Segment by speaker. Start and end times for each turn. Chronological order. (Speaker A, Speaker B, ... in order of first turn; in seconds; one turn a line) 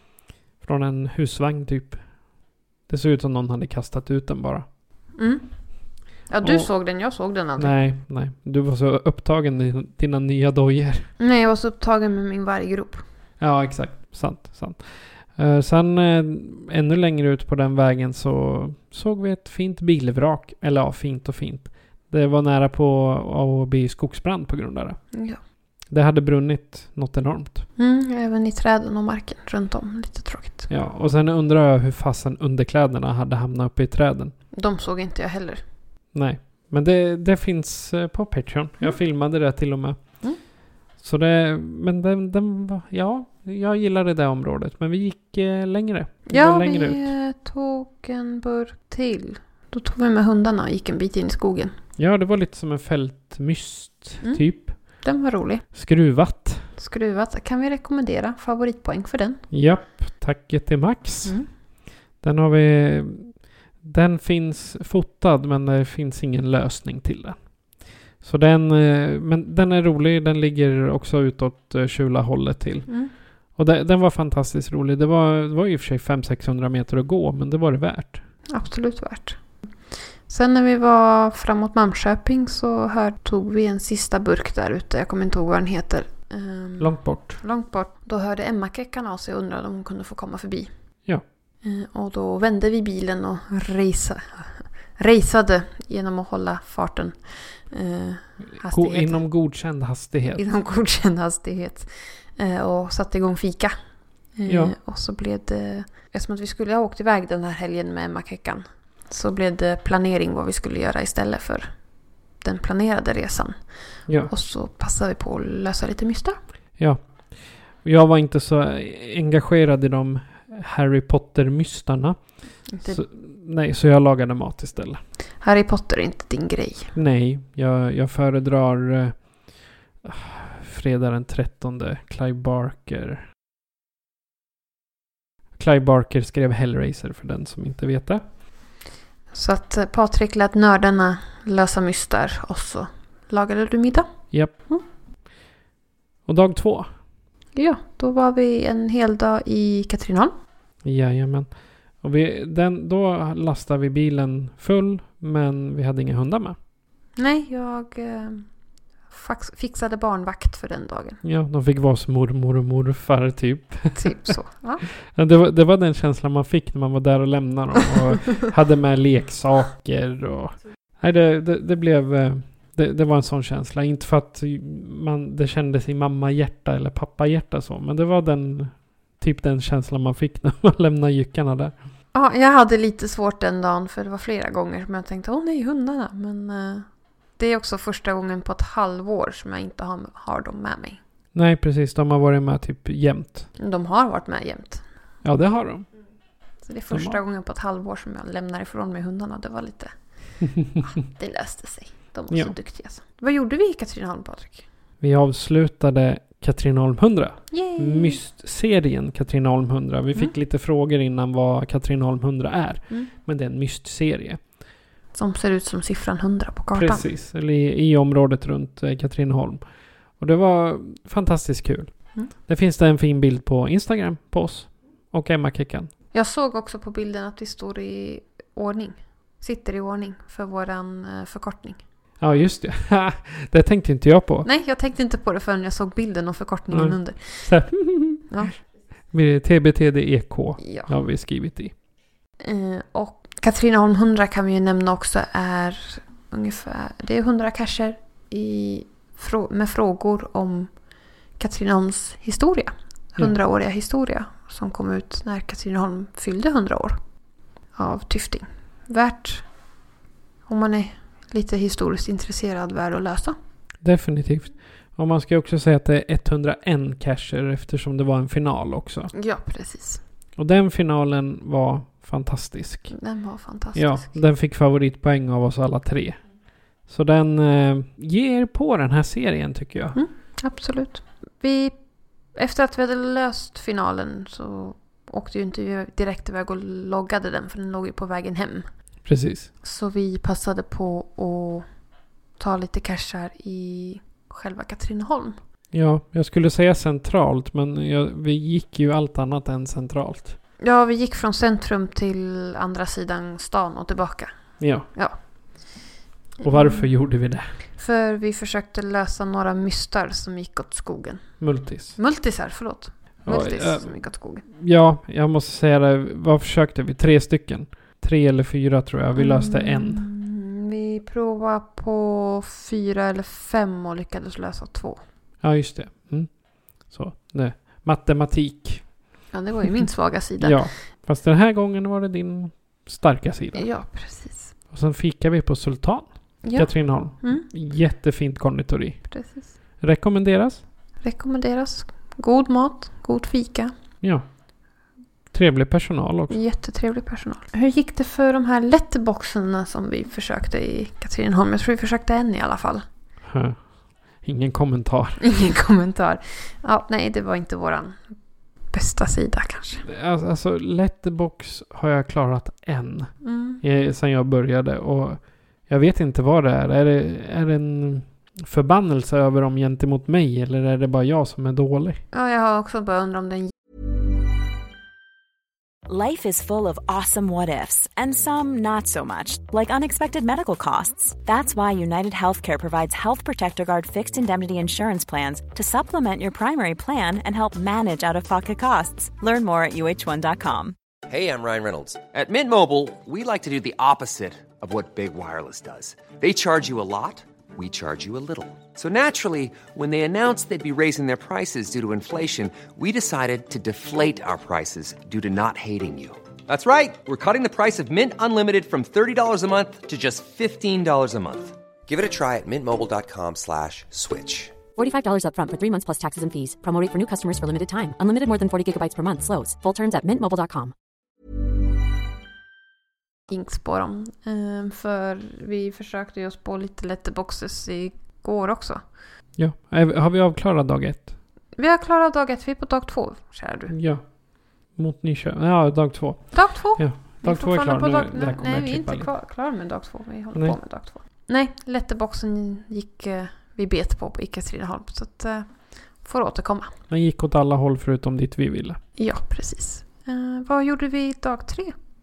Speaker A: 0.6-2.0
Speaker A: 2.9-4.7
Speaker B: 5.2-5.5
Speaker B: 6.3-7.7
Speaker A: 6.4-6.7
Speaker A: 7.6-11.1
Speaker B: 11.2-13.0
Speaker A: 13.4-25.0
Speaker B: 25.1-25.4
Speaker A: 25.9-27.6
Speaker B: 27.8-30.7
Speaker A: 30.7-34.3
Speaker B: 34.5-35.6
Speaker A: 36.1-40.0
Speaker A: 41.0-47.1
Speaker B: 46.3-51.7
Speaker A: 52.0-54.7
Speaker B: 54.2-55.6
Speaker A: 55.7-56.6
Speaker B: 56.8-59.4
Speaker A: 59.5-61.4
Speaker A: 62.2-67.5
Speaker A: 68.2-72.9
Speaker A: 73.5-78.2
Speaker B: 78.5-79.4
Speaker B: 80.2-90.7
Speaker A: 86.8-87.4
Speaker B: 91.6-99.2
Speaker A: 98.6-100.4
Speaker B: 100.3-103.7
Speaker B: 104.3-111.7
Speaker A: 104.5-104.7
Speaker B: 112.4-113.6
Speaker B: 114.3-116.4
Speaker A: 117.8-122.2
Speaker B: 122.7-123.0
Speaker A: 122.8-125.0
Speaker B: 125.4-126.9
Speaker A: 126.9-129.2
Speaker A: 130.0-133.2
Speaker A: 135.6-138.2
Speaker B: 139.3-144.1
Speaker A: 146.2-146.9
Speaker B: 147.6-150.3
Speaker A: 150.8-151.5
Speaker A: 152.0-156.6
Speaker B: 157.2-158.4
Speaker B: 159.1-161.2
Speaker A: 161.2-164.3
Speaker B: 163.9-164.8
Speaker A: 165.0-181.7
Speaker B: 182.1-186.9
Speaker B: 187.4-191.0
Speaker A: 191.3-193.5
Speaker B: 193.6-194.8
Speaker A: 195.2-195.9
Speaker B: 196.6-199.9
Speaker A: 196.9-197.2
Speaker B: 200.8-204.7
Speaker A: 205.0-214.4
Speaker B: 207.5-208.2
Speaker B: 215.1-217.1
Speaker A: 216.7-219.6
Speaker A: 220.2-225.9
Speaker B: 226.1-231.8
Speaker A: 232.2-234.5
Speaker B: 234.4-237.5
Speaker A: 236.7-238.3
Speaker B: 238.3-238.6
Speaker A: 239.1-241.7
Speaker B: 240.6-240.9
Speaker B: 242.4-250.7
Speaker B: 251.4-257.0
Speaker B: 257.7-259.4
Speaker B: 260.5-263.4
Speaker A: 263.8-269.1
Speaker B: 269.1-270.0
Speaker A: 270.4-272.9
Speaker B: 272.9-274.2
Speaker A: 273.7-276.2
Speaker A: 276.9-280.0
Speaker B: 279.9-281.7
Speaker B: 282.3-288.7
Speaker A: 289.0-289.5
Speaker B: 289.6-291.6
Speaker B: 292.4-295.4
Speaker A: 295.7-300.4
Speaker B: 300.6-304.3
Speaker A: 304.6-304.9
Speaker B: 304.9-305.2
Speaker B: 306.4-306.9
Speaker A: 306.4-307.5
Speaker B: 307.8-311.3
Speaker A: 311.4-312.0
Speaker B: 311.9-314.4
Speaker A: 313.2-313.9
Speaker A: 314.5-320.0
Speaker B: 319.1-325.0
Speaker A: 325.4-328.9
Speaker B: 329.3-330.6
Speaker A: 330.4-333.6
Speaker B: 333.5-334.5
Speaker A: 334.7-339.0
Speaker B: 336.4-337.4
Speaker B: 339.1-339.5
Speaker A: 339.8-340.6
Speaker B: 341.0-343.7
Speaker A: 345.3-346.4
Speaker B: 346.3-352.8
Speaker A: 353.2-353.6
Speaker A: 354.2-355.2
Speaker B: 355.2-358.0
Speaker B: 358.7-359.8
Speaker A: 359.9-372.0
Speaker B: 363.2-363.6
Speaker B: 372.1-373.5
Speaker C: 375.9-390.7
Speaker D: 391.1-414.5
Speaker E: 414.8-420.7
Speaker B: 423.3-428.8
Speaker A: 429.4-431.1
Speaker B: 431.6-433.7
Speaker A: 433.7-434.0
Speaker A: 434.7-439.1
Speaker B: 436.3-446.7
Speaker A: 446.9-448.8
Speaker B: 449.0-451.7